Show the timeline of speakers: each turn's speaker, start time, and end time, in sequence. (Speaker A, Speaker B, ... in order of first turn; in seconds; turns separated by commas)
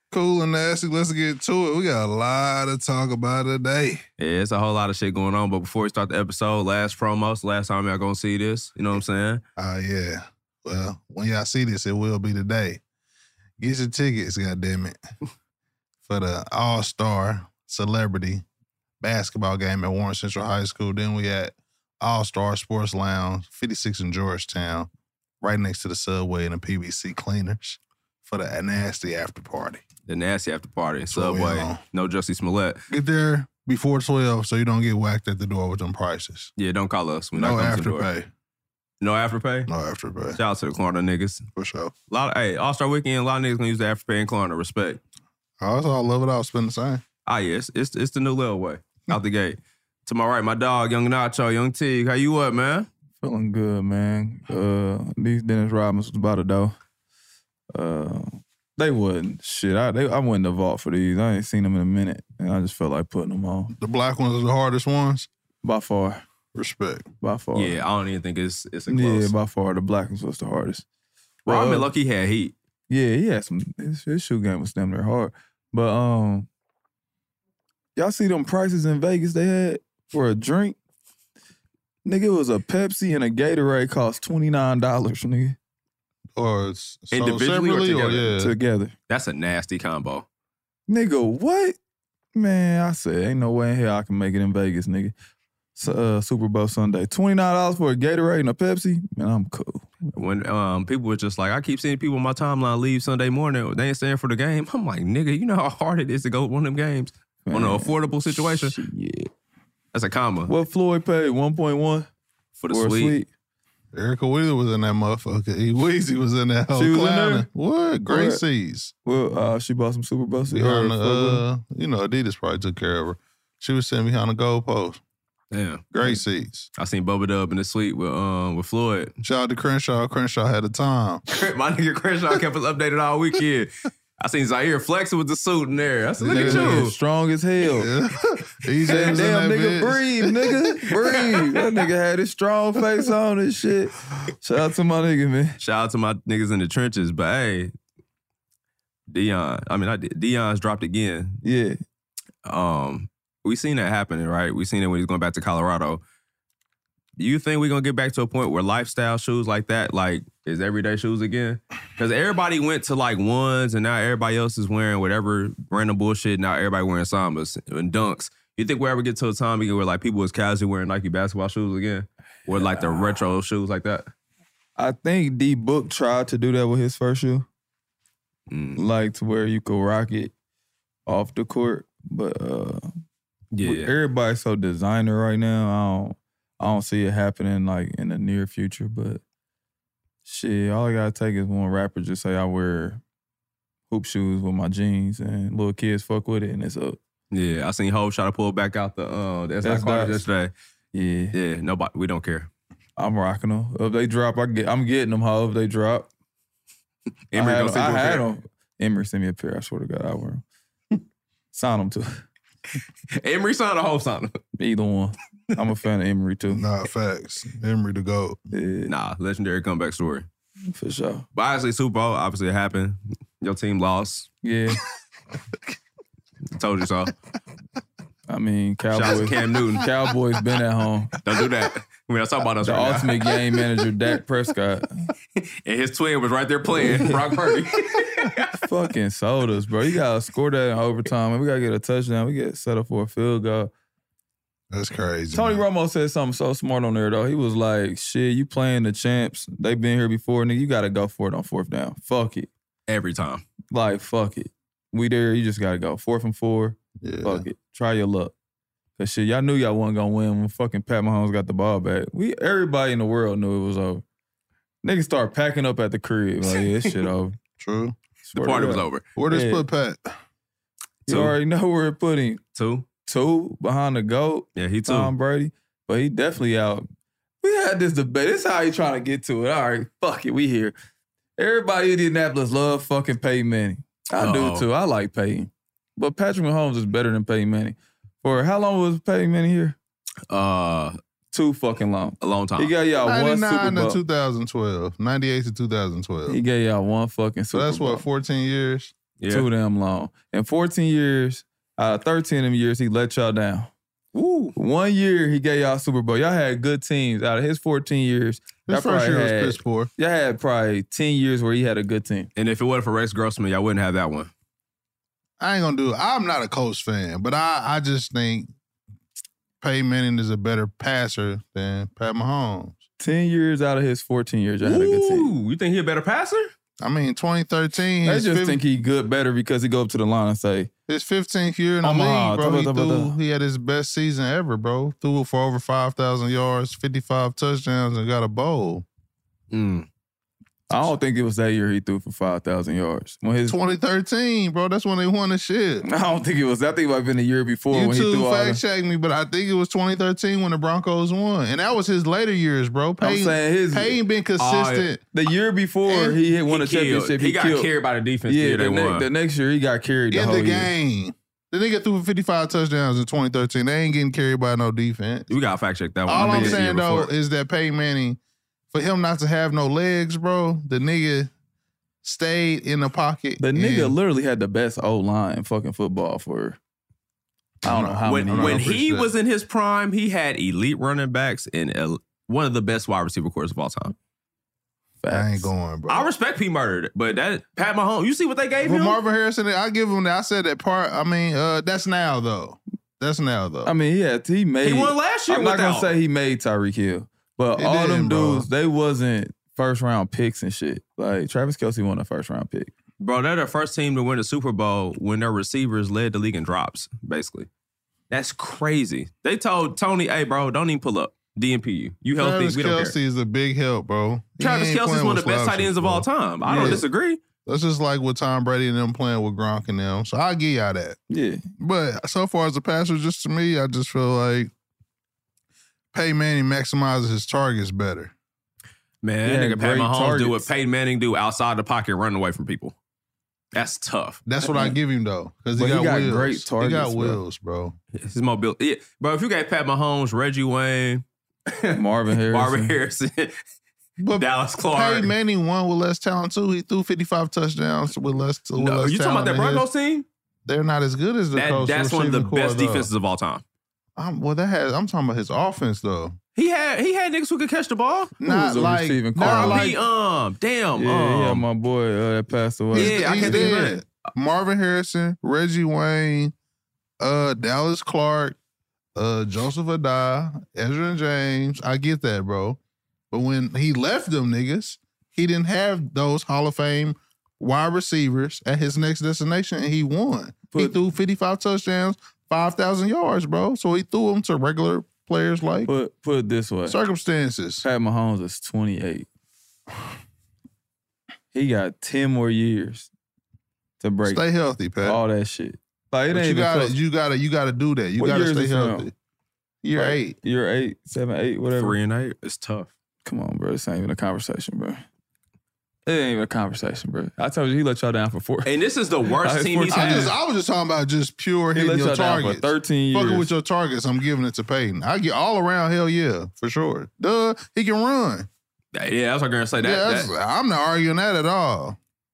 Speaker A: 0.1-4.0, Speaker B: 4.2-9.4, Speaker A: 9.6-12.8, Speaker A: 13.6-15.0, Speaker A: 16.1-18.4, Speaker A: 19.0-24.9, Speaker A: 25.4-29.8, Speaker B: 30.1-32.8, Speaker A: 31.1-31.8, Speaker A: 32.9-36.5, Speaker B: 36.6-38.1, Speaker A: 37.3-38.3, Speaker B: 39.0-39.7, Speaker A: 39.7-40.4, Speaker B: 40.4-41.4, Speaker A: 41.5-41.9, Speaker B: 42.1-45.0, Speaker A: 45.6-47.0, Speaker B: 47.2-52.9, Speaker C: 53.2-56.8, Speaker C: 57.7-63.7, Speaker A: 63.7-65.3, Speaker C: 65.6-66.2, Speaker A: 66.5-67.1, Speaker C: 67.2-67.8, Speaker B: 67.5-69.3, Speaker C: 68.9-70.8, Speaker C: 71.4-71.9, Speaker B: 71.5-72.5, Speaker C: 72.9-76.5, Speaker C: 78.0-80.8, Speaker C: 82.0-85.5, Speaker A: 86.3-88.5, Speaker B: 87.1-88.3, Speaker C: 88.4-88.9, Speaker B: 89.1-90.2, Speaker C: 90.9-91.8, Speaker C: 92.3-95.1, Speaker C: 95.8-99.9, Speaker B: 100.2-108.7, Speaker C: 107.5-109.3, Speaker B: 109.9-110.5, Speaker C: 110.5-112.1, Speaker B: 112.6-113.2, Speaker C: 112.7-113.3, Speaker A: 113.9-118.9, Speaker C: 116.7-117.5, Speaker C: 118.1-118.4, Speaker C: 119.0-121.4, Speaker A: 120.5-125.0, Speaker B: 125.5-125.8, Speaker A: 125.9-126.7, Speaker B: 126.8-129.1, Speaker A: 129.2-131.2, Speaker B: 131.3-136.9, Speaker A: 136.2-136.9, Speaker C: 136.2-137.9, Speaker A: 137.7-140.3, Speaker C: 138.8-145.6, Speaker B: 145.6-147.7, Speaker B: 149.1-151.4, Speaker C: 151.4-151.8, Speaker B: 152.4-156.0, Speaker B: 157.2-174.1, Speaker C: 172.5-173.3, Speaker C: 174.8-177.4, Speaker B: 178.5-178.8, Speaker C: 178.8-180.3, Speaker C: 181.1-182.9, Speaker B: 183.5-183.9, Speaker C: 183.6-189.2, Speaker C: 190.2-193.0, Speaker C: 193.9-197.0, Speaker B: 197.3-200.5, Speaker C: 199.6-200.2, Speaker C: 200.9-201.3, Speaker B: 201.3-202.5, Speaker C: 203.0-206.1, Speaker B: 207.3-208.2, Speaker C: 207.3-210.4, Speaker C: 211.5-212.2, Speaker B: 213.2-214.3, Speaker C: 214.6-216.6, Speaker A: 216.5-218.4, Speaker C: 218.5-218.9, Speaker B: 218.9-220.3, Speaker C: 220.7-221.2, Speaker B: 221.3-224.3, Speaker C: 224.4-224.8, Speaker B: 226.6-227.1, Speaker C: 228.3-231.1, Speaker B: 228.9-229.9, Speaker B: 231.2-233.2, Speaker C: 232.6-234.9, Speaker B: 235.6-238.5, Speaker C: 236.7-237.3, Speaker C: 238.6-243.7, Speaker A: 244.7-245.6, Speaker C: 245.3-252.5, Speaker B: 252.9-253.4, Speaker C: 253.7-258.3, Speaker A: 257.0-257.4, Speaker C: 259.0-264.0, Speaker C: 264.8-267.4, Speaker A: 267.6-268.0, Speaker C: 268.2-269.6, Speaker B: 268.4-269.0, Speaker A: 269.1-270.1, Speaker B: 271.1-271.3, Speaker C: 271.1-272.4, Speaker B: 272.6-272.9, Speaker C: 273.0-276.9, Speaker B: 274.6-275.1, Speaker C: 277.4-280.7, Speaker C: 281.4-289.8, Speaker B: 284.2-284.6, Speaker B: 290.3-290.9, Speaker C: 291.3-294.0, Speaker B: 292.2-292.7, Speaker A: 293.0-296.4, Speaker C: 296.3-298.0, Speaker A: 297.5-298.9, Speaker B: 299.2-299.5, Speaker C: 299.3-303.7, Speaker B: 304.1-304.5, Speaker C: 304.5-312.3, Speaker A: 308.7-309.9, Speaker B: 312.4-314.3, Speaker A: 315.4-318.5, Speaker A: 319.6-322.8, Speaker C: 323.0-325.3, Speaker B: 324.6-326.5, Speaker A: 326.8-328.6, Speaker C: 328.0-330.7, Speaker A: 330.9-338.8, Speaker C: 331.8-333.1, Speaker B: 339.5-339.9, Speaker C: 340.7-343.6, Speaker A: 343.4-345.9, Speaker C: 345.8-348.6, Speaker A: 347.7-355.0, Speaker C: 353.0-354.0, Speaker B: 354.4-354.9, Speaker C: 355.1-357.7, Speaker A: 355.9-356.1, Speaker B: 356.5-359.1, Speaker C: 358.3-360.7, Speaker A: 360.1-365.3, Speaker B: 365.3-367.1, Speaker A: 366.1-368.2, Speaker C: 366.1-366.6, Speaker A: 368.7-371.3, Speaker A: 372.0-373.9, Speaker C: 373.4-376.6, Speaker C: 377.6-378.8, Speaker A: 377.6-379.1, Speaker B: 378.1-383.9, Speaker C: 385.0-385.5, Speaker A: 385.1-386.1, Speaker B: 385.9-389.0, Speaker A: 388.6-393.7, Speaker C: 393.6-402.7, Speaker B: 394.6-395.9, Speaker A: 397.6-398.4, Speaker B: 403.0-407.5, Speaker B: 408.1-412.9, Speaker A: 412.2-416.8, Speaker B: 414.4-417.2, Speaker C: 416.4-416.8, Speaker A: 417.4-421.0, Speaker C: 421.1-421.4, Speaker A: 421.6-424.5, Speaker A: 425.9-428.1, Speaker B: 429.0-432.7, Speaker C: 429.2-430.5, Speaker B: 433.5-434.2, Speaker A: 434.2-437.8, Speaker C: 434.5-434.8, Speaker C: 435.5-437.2, Speaker B: 437.9-443.3, Speaker C: 441.7-442.7, Speaker A: 444.0-449.6, Speaker B: 444.2-445.1, Speaker B: 448.6-450.0, Speaker A: 450.4-452.9, Speaker B: 451.3-453.4, Speaker A: 454.0-456.1, Speaker B: 456.4-458.1, Speaker A: 458.2-459.8, Speaker C: 458.2-459.7, Speaker B: 459.1-461.4, Speaker C: 460.8-463.7, Speaker A: 462.7-466.3, Speaker B: 462.7-463.8, Speaker A: 467.0-468.4, Speaker A: 468.9-472.6, Speaker A: 473.1-485.7, Speaker C: 480.5-480.8, Speaker C: 485.6-486.8, Speaker A: 486.6-487.6, Speaker C: 487.6-489.1, Speaker C: 491.3-492.9, Speaker C: 493.8-494.2, Speaker A: 494.0-495.0, Speaker C: 494.8-496.8, Speaker A: 496.1-498.9, Speaker C: 498.0-498.9, Speaker A: 499.6-500.1, Speaker C: 499.7-501.8, Speaker B: 501.5-502.7, Speaker C: 503.0-504.8, Speaker C: 505.9-508.5, Speaker B: 508.4-510.1, Speaker C: 509.2-510.1, Speaker A: 509.7-518.3, Speaker C: 511.5-513.3, Speaker B: 518.7-520.1, Speaker A: 519.6-521.8